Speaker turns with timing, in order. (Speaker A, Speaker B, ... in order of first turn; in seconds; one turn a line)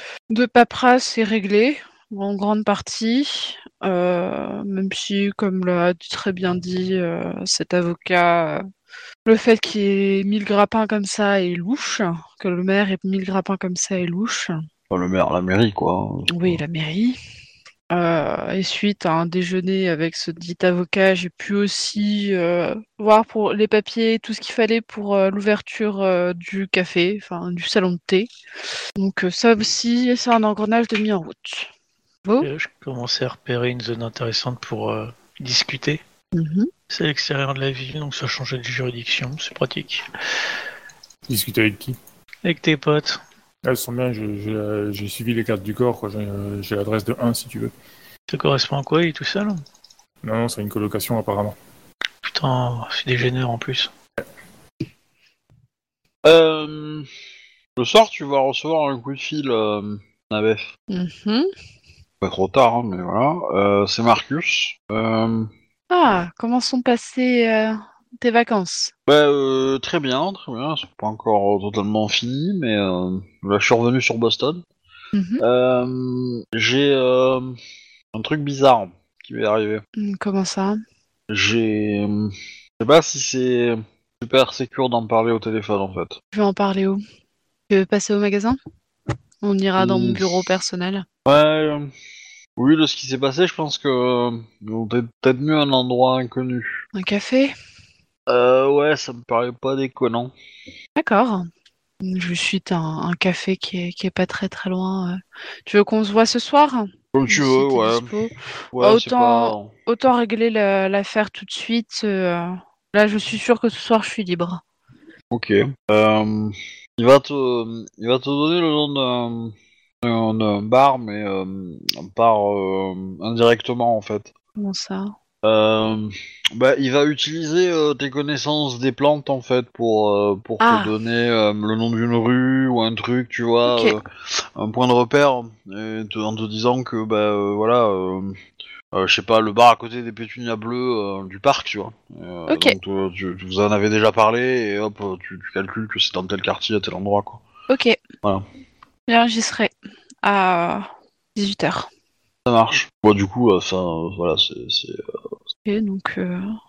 Speaker A: 0.3-8.6
Speaker A: 9.2-14.6
Speaker B: 14.9-16.6
Speaker A: 16.3-17.2
Speaker A: 17.9-28.3
Speaker A: 29.0-31.7
Speaker C: 32.4-36.0
Speaker A: 36.3-36.7
Speaker C: 36.9-40.1
Speaker D: 41.3-42.0
Speaker C: 42.4-43.2
Speaker D: 43.6-47.7
Speaker C: 48.3-49.6
Speaker D: 50.2-51.6
Speaker C: 52.2-53.9
Speaker B: 56.2-57.1
Speaker B: 57.8-60.7
Speaker A: 60.9-61.5
Speaker B: 62.2-65.5
Speaker A: 65.9-68.9
Speaker B: 69.1-74.6
Speaker A: 75.1-75.4
Speaker B: 75.4-77.6
Speaker B: 78.1-79.8
Speaker A: 80.0-80.8
Speaker B: 81.3-86.2
Speaker A: 86.3-87.0
Speaker A: 87.7-88.6
Speaker A: 89.4-91.0
Speaker B: 89.8-90.2
Speaker B: 91.3-91.9
Speaker B: 92.6-96.8
Speaker A: 96.9-97.5
Speaker B: 98.3-100.3
Speaker A: 101.0-101.5
Speaker A: 102.0-114.6
Speaker B: 107.1-108.1
Speaker B: 108.7-109.7
Speaker B: 115.3-124.3
Speaker A: 124.6-125.1
Speaker B: 125.4-134.0
Speaker A: 130.6-130.9
Speaker A: 133.7-134.0
Speaker B: 134.6-138.4
Speaker B: 138.9-147.4
Speaker A: 142.5-142.8
Speaker A: 147.7-148.0
Speaker A: 149.1-151.9
Speaker B: 152.5-155.0
Speaker A: 155.7-156.5